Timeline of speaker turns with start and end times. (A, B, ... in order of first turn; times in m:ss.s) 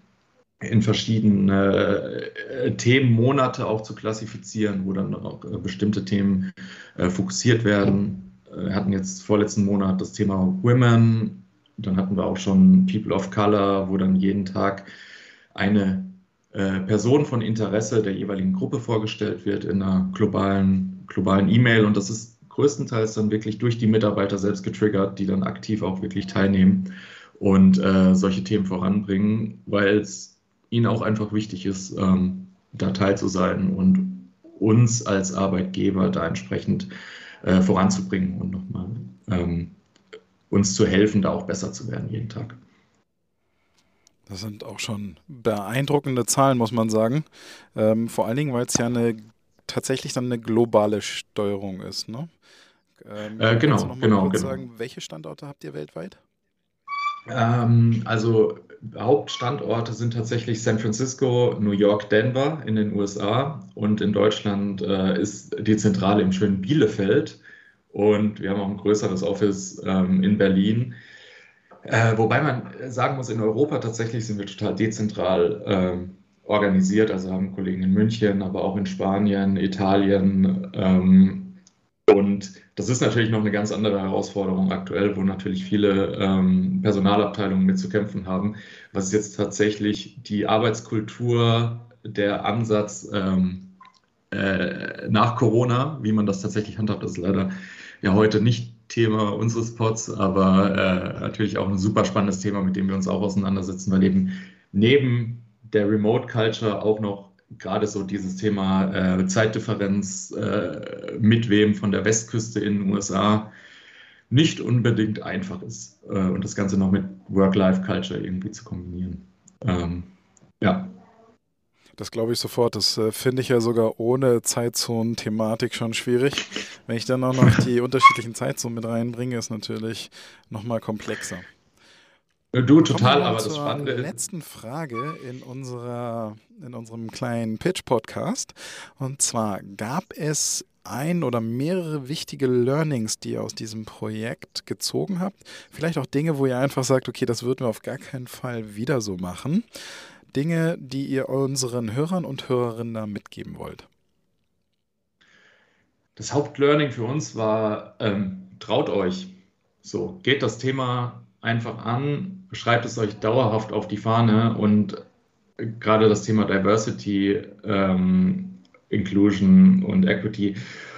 0:00.6-0:14.9 A
0:15.5-0:36.9 A
0:37.4-0:39.8 A
0:40.5-0:42.6 A
0:44.3-0:52.3 B
0:53.0-0:56.2 B
0:53.4-0:54.6 A
0:57.3-1:07.4 A
1:07.9-1:11.0 A
1:11.9-1:33.8 A
1:34.3-1:53.5 A
1:54.3-2:00.9 A
2:02.0-2:11.5 B
2:12.5-2:14.2 A
2:12.9-2:29.6 B
2:30.3-2:33.9 B
2:36.2-2:45.0 A
2:45.6-2:50.6 A